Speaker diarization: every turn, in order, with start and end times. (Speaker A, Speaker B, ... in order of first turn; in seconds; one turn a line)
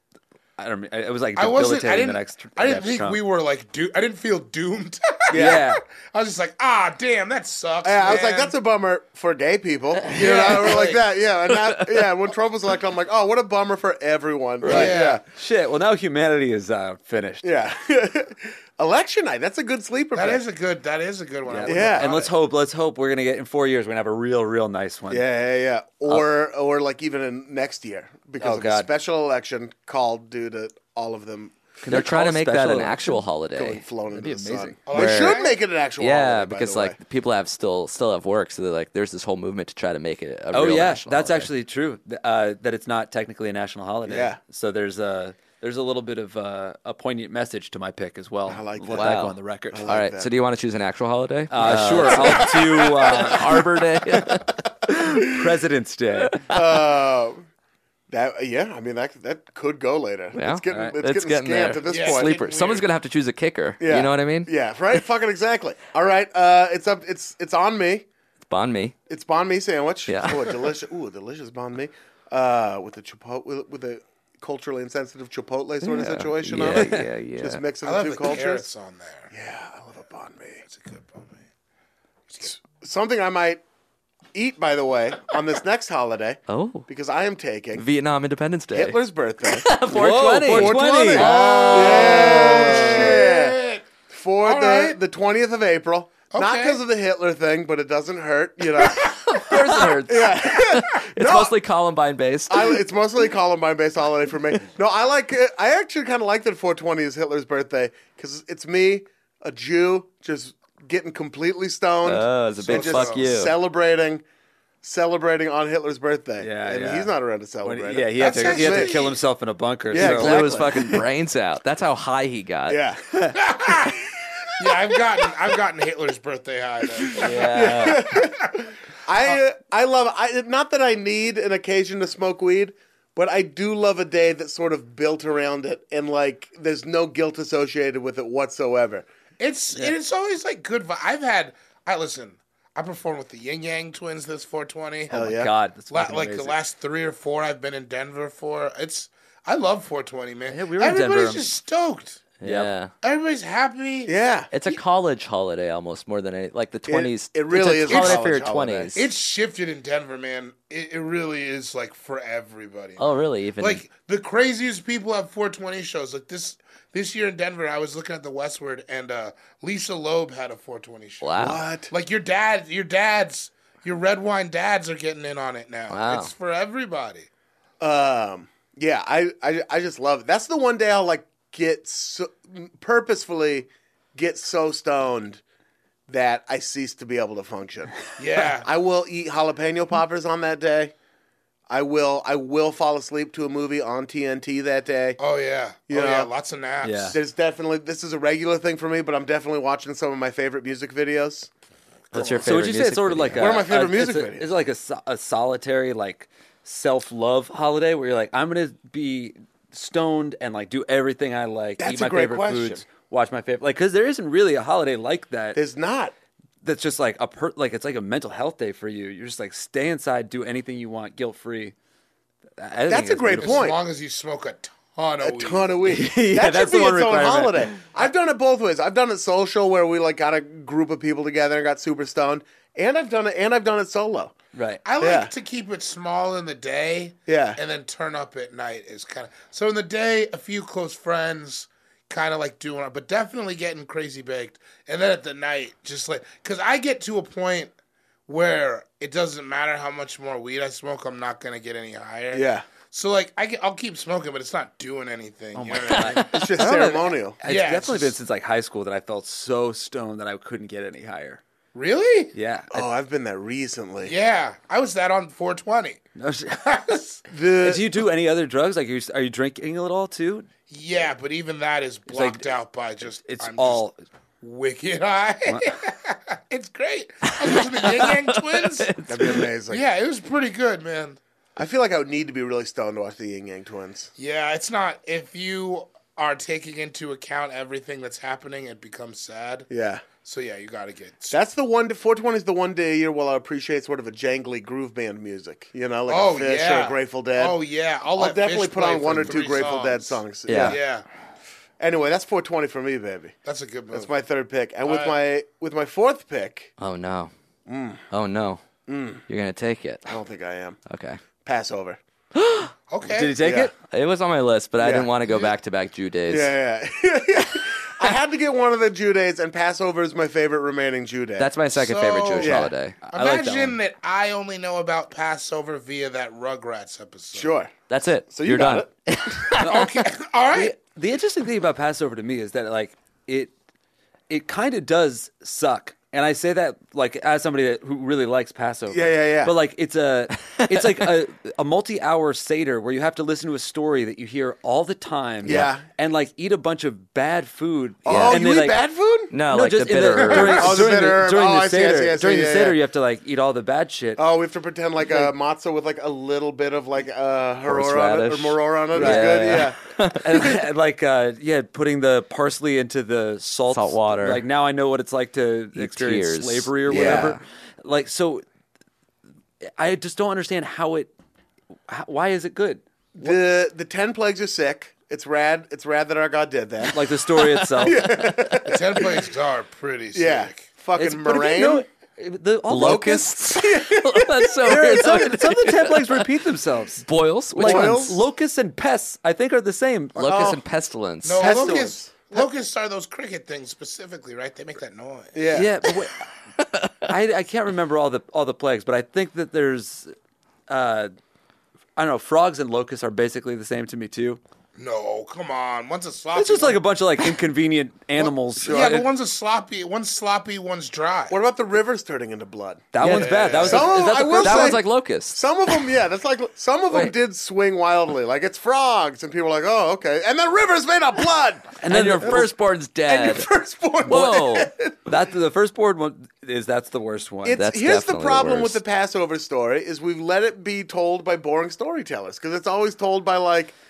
Speaker A: 0.6-3.2
Speaker B: 1.4-8.5
Speaker C: 5.3-5.6
Speaker A: 5.3-5.8
Speaker C: 7.8-15.2
Speaker B: 10.1-11.0
Speaker A: 10.2-10.8
Speaker D: 11.6-12.1
Speaker A: 14.6-17.5
Speaker B: 14.7-15.2
Speaker C: 17.4-20.4
Speaker B: 20.1-22.3
Speaker A: 21.5-25.3
Speaker C: 21.6-22.3
Speaker C: 25.1-31.6
Speaker A: 28.4-28.9
Speaker A: 31.8-33.2
Speaker D: 31.9-33.8
Speaker C: 33.6-37.0
Speaker A: 34.1-34.8
Speaker B: 34.9-35.6
Speaker D: 34.9-35.4
Speaker D: 36.0-41.5
Speaker A: 40.5-49.9
Speaker C: 44.1-44.4
Speaker C: 48.5-49.2
Speaker D: 49.0-55.1
Speaker C: 49.7-50.3
Speaker A: 51.5-53.7
Speaker C: 51.6-52.5
Speaker A: 54.9-56.4
Speaker C: 56.5-57.5
Speaker C: 58.1-62.4
Speaker D: 60.4-64.5
Speaker A: 60.7-61.0
Speaker B: 61.9-62.9
Speaker C: 63.8-68.1
Speaker D: 68.5-69.0
Speaker C: 69.1-78.7
Speaker D: 70.1-70.7
Speaker D: 75.8-77.6
Speaker A: 76.6-77.1
Speaker B: 77.8-79.3
Speaker C: 79.3-80.6
Speaker B: 80.7-81.4
Speaker C: 82.4-83.6
Speaker C: 84.3-87.8
Speaker D: 86.5-86.9
Speaker D: 87.8-92.9
Speaker C: 88.7-89.8
Speaker A: 89.9-91.4
Speaker C: 90.4-101.6
Speaker B: 91.1-93.8
Speaker B: 94.4-95.0
Speaker B: 96.3-96.8
Speaker D: 98.9-102.8
Speaker C: 102.5-114.2
Speaker D: 112.0-113.5
Speaker B: 112.7-113.2
Speaker C: 114.8-119.1
Speaker A: 116.4-120.8
Speaker B: 118.2-119.2
Speaker C: 119.9-121.0
Speaker D: 120.0-122.8
Speaker C: 122.7-124.6
Speaker B: 123.3-124.0
Speaker B: 124.6-128.5
Speaker C: 127.0-139.1
Speaker D: 127.1-128.1
Speaker B: 139.4-145.1
Speaker C: 145.1-145.5
Speaker A: 145.1-146.6
Speaker B: 145.9-152.2
Speaker A: 150.5-151.5
Speaker D: 152.4-152.9
Speaker A: 152.4-152.7
Speaker B: 153.0-154.1
Speaker C: 154.1-154.5
Speaker D: 154.5-159.1
Speaker C: 156.9-158.9
Speaker B: 157.9-158.3
Speaker B: 158.9-163.1
Speaker D: 163.0-163.8
Speaker B: 163.6-171.3
Speaker D: 171.2-171.6
Speaker C: 171.4-171.9
Speaker B: 171.9-177.3
Speaker D: 175.9-176.3
Speaker C: 177.8-185.4
Speaker C: 186.1-190.9
Speaker B: 188.2-188.7
Speaker C: 191.7-195.2
Speaker B: 195.2-197.2
Speaker C: 195.9-196.3
Speaker A: 196.8-197.2
Speaker C: 197.1-201.5
Speaker D: 202.1-203.6
Speaker B: 202.1-202.4
Speaker A: 202.2-215.6
Speaker C: 203.4-204.5
Speaker C: 211.8-212.8
Speaker C: 215.5-216.1
Speaker A: 216.6-221.7
Speaker A: 222.6-223.7
Speaker C: 222.9-223.8
Speaker B: 223.4-225.8
Speaker C: 225.2-234.3
Speaker A: 225.9-227.8
Speaker A: 234.5-234.8
Speaker B: 234.8-247.7
Speaker C: 235.0-235.3
Speaker C: 237.3-237.6
Speaker B: 248.3-256.5
Speaker C: 252.3-252.7
Speaker A: 255.6-261.4
Speaker D: 255.8-256.2
Speaker C: 256.3-257.4
Speaker B: 257.4-258.1
Speaker B: 261.8-262.4
Speaker A: 262.3-262.9
Speaker C: 262.7-264.1
Speaker B: 264.0-266.0
Speaker A: 266.2-266.6
Speaker B: 266.6-267.2
Speaker C: 267.3-268.0
Speaker A: 267.6-270.5
Speaker B: 270.7-273.9
Speaker A: 272.1-272.5
Speaker A: 273.2-274.0
Speaker B: 274.4-278.9
Speaker A: 275.5-275.7
Speaker D: 277.4-279.5
Speaker C: 279.1-279.8
Speaker B: 279.7-281.2
Speaker C: 281.6-284.1
Speaker B: 284.2-289.7
Speaker C: 289.7-290.1
Speaker B: 290.2-291.4
Speaker C: 291.3-297.6
Speaker B: 296.1-301.1
Speaker C: 298.2-300.8
Speaker D: 300.5-300.8
Speaker C: 301.8-303.4
Speaker B: 303.4-304.1
Speaker C: 303.9-306.7
Speaker B: 304.9-305.2
Speaker D: 306.8-307.3
Speaker C: 307.7-308.0
Speaker D: 308.1-308.6
Speaker C: 308.9-309.2
Speaker D: 309.3-310.1
Speaker C: 310.1-310.8
Speaker D: 310.9-311.2
Speaker C: 311.4-312.0
Speaker D: 312.4-312.7
Speaker B: 312.9-313.4
Speaker A: 313.1-313.7
Speaker C: 313.4-313.7
Speaker D: 313.9-316.5
Speaker C: 314.8-315.6
Speaker C: 316.3-321.5
Speaker D: 321.4-323.0
Speaker B: 321.7-327.5
Speaker C: 322.4-322.7
Speaker A: 323.0-323.8
Speaker C: 327.3-327.7
Speaker D: 327.9-329.9
Speaker C: 328.3-328.9
Speaker B: 329.6-330.7
Speaker A: 330.5-333.5
Speaker A: 334.3-348.8
Speaker C: 338.9-339.5
Speaker D: 340.5-340.9
Speaker C: 345.4-345.8
Speaker C: 348.1-349.3
Speaker D: 348.1-348.4
Speaker D: 349.3-350.8
Speaker A: 349.5-354.2
Speaker C: 350.2-352.8
Speaker C: 354.2-359.8
Speaker D: 357.7-360.5
Speaker A: 358.9-359.7
Speaker A: 360.2-368.4
Speaker D: 363.7-364.4
Speaker D: 365.8-367.4
Speaker C: 366.9-367.4
Speaker A: 369.8-371.1
Speaker A: 371.9-373.4
Speaker C: 373.2-379.3
Speaker A: 376.9-378.1
Speaker B: 378.6-380.7
Speaker C: 380.1-381.9
Speaker A: 381.0-383.3
Speaker D: 382.7-386.2
Speaker C: 382.7-385.2
Speaker A: 384.6-387.1
Speaker D: 387.0-388.2
Speaker A: 387.6-390.4
Speaker C: 387.6-388.2
Speaker D: 390.1-391.8
Speaker C: 390.2-390.6
Speaker B: 391.2-395.4
Speaker C: 391.4-392.4
Speaker C: 395.3-395.7
Speaker A: 395.5-396.2
Speaker D: 396.6-397.1
Speaker A: 397.1-400.1
Speaker A: 400.7-401.1
Speaker A: 402.0-404.4
Speaker B: 404.8-406.8
Speaker A: 406.4-409.1
Speaker C: 408.2-409.1
Speaker B: 408.7-411.4
Speaker C: 411.3-412.9
Speaker A: 412.9-414.8
Speaker B: 413.0-414.0
Speaker C: 413.6-422.5
Speaker D: 414.4-415.4
Speaker A: 421.8-422.5
Speaker D: 421.9-423.5
Speaker C: 423.1-425.1
Speaker D: 424.1-424.7
Speaker A: 425.1-427.6
Speaker C: 427.4-433.8
Speaker D: 427.5-428.8